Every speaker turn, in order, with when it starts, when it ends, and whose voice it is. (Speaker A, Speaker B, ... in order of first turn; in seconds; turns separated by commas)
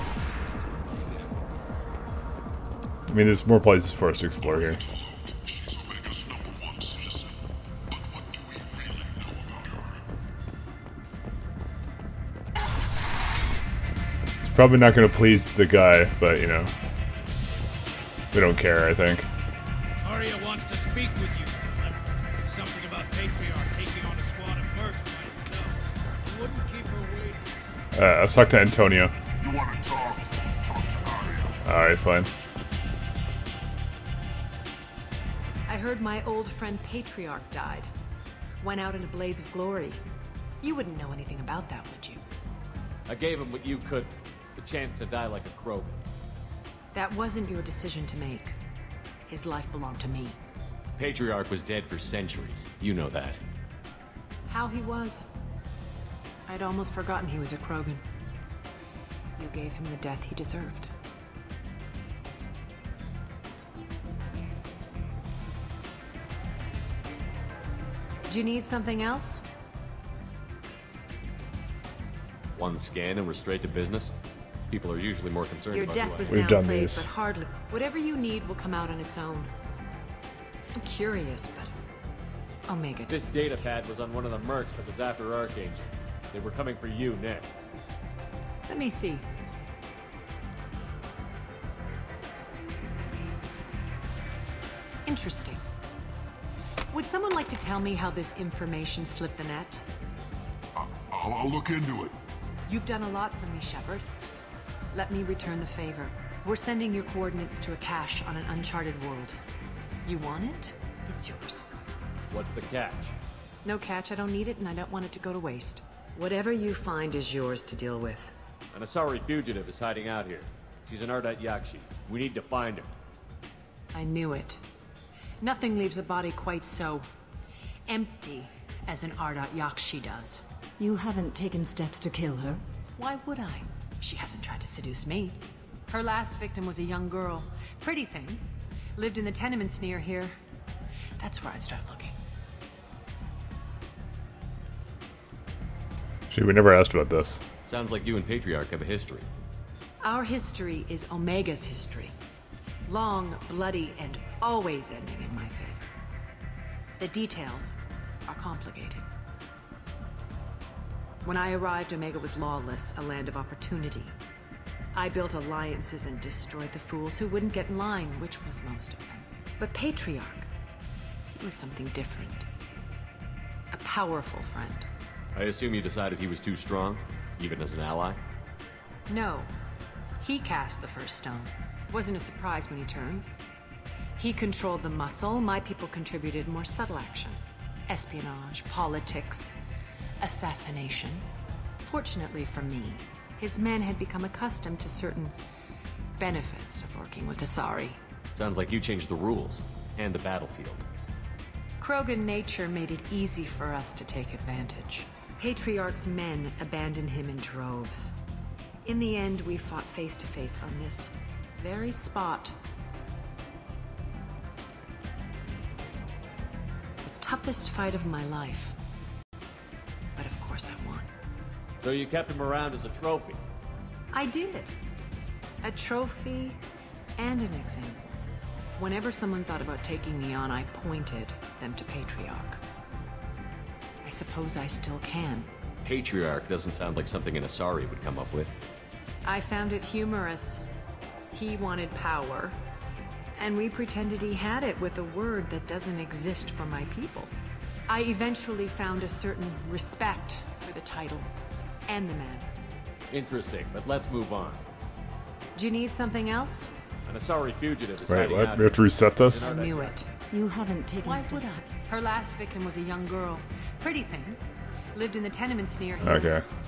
Speaker A: 0.2-1.3, Speaker B: 3.1-4.8, Speaker B: 14.4-16.7, Speaker B: 18.3-19.3, Speaker A: 20.0-21.9, Speaker A: 22.5-25.7, Speaker A: 26.2-27.4, Speaker B: 27.9-29.1, Speaker C: 29.5-30.2, Speaker C: 30.9-31.5, Speaker B: 31.6-32.3, Speaker D: 35.7-37.9, Speaker D: 38.6-40.0, Speaker D: 40.6-42.2, Speaker E: 43.1-46.0, Speaker D: 46.9-48.6, Speaker D: 49.3-50.4, Speaker E: 51.0-53.4, Speaker D: 54.5-55.2, Speaker D: 56.5-58.0, Speaker D: 59.4-60.9, Speaker D: 68.2-69.4, Speaker E: 72.6-74.1, Speaker E: 74.7-76.4, Speaker D: 75.7-79.5, Speaker B: 76.3-77.1, Speaker D: 80.8-81.7, Speaker D: 82.7-83.3, Speaker E: 83.1-87.7, Speaker D: 88.7-89.3, Speaker D: 95.0-95.6, Speaker D: 96.9-99.9, Speaker C: 100.8-102.2, Speaker D: 102.7-104.1, Speaker D: 104.9-109.4, Speaker D: 110.0-111.7, Speaker E: 112.3-113.2, Speaker D: 113.6-118.3, Speaker E: 118.7-122.9, Speaker D: 123.9-124.6, Speaker D: 125.4-127.1, Speaker D: 127.9-130.4, Speaker F: 130.8-132.6, Speaker D: 132.9-138.4, Speaker D: 138.9-140.4, Speaker D: 141.2-142.2, Speaker B: 146.3-147.4, Speaker E: 147.7-149.3, Speaker D: 150.0-152.1, Speaker D: 152.9-155.9, Speaker D: 157.0-157.8, Speaker D: 158.2-159.1, Speaker D: 161.2-164.2, Speaker D: 164.9-170.5, Speaker D: 171.4-172.5, Speaker D: 173.7-174.9, Speaker E: 175.3-178.2, Speaker D: 179.1-179.5, Speaker D: 180.2-183.3, Speaker D: 184.2-189.6, Speaker D: 190.2-191.2, Speaker D: 191.8-195.4, Speaker D: 196.2-198.0, Speaker E: 198.3-200.9, Speaker D: 201.8-208.1, Speaker D: 208.8-212.6, Speaker D: 217.1-218.8, Speaker D: 220.2-221.1, Speaker E: 221.8-223.4, Speaker D: 224.1-224.8, Speaker D: 225.6-226.6, Speaker D: 227.2-228.2, Speaker D: 228.8-232.6, Speaker D: 234.0-235.5, Speaker E: 235.8-238.5, Speaker D: 239.2-240.6, Speaker D: 241.3-242.6, Speaker D: 243.4-247.3, Speaker D: 247.9-251.3, Speaker D: 251.9-252.5, Speaker E: 253.1-254.6, Speaker D: 255.5-256.7, Speaker E: 257.1-260.0, Speaker B: 258.1-259.5, Speaker D: 259.4-260.1, Speaker F: 260.3-261.7, Speaker D: 261.0-264.4, Speaker D: 264.9-266.3, Speaker B: 266.0-266.4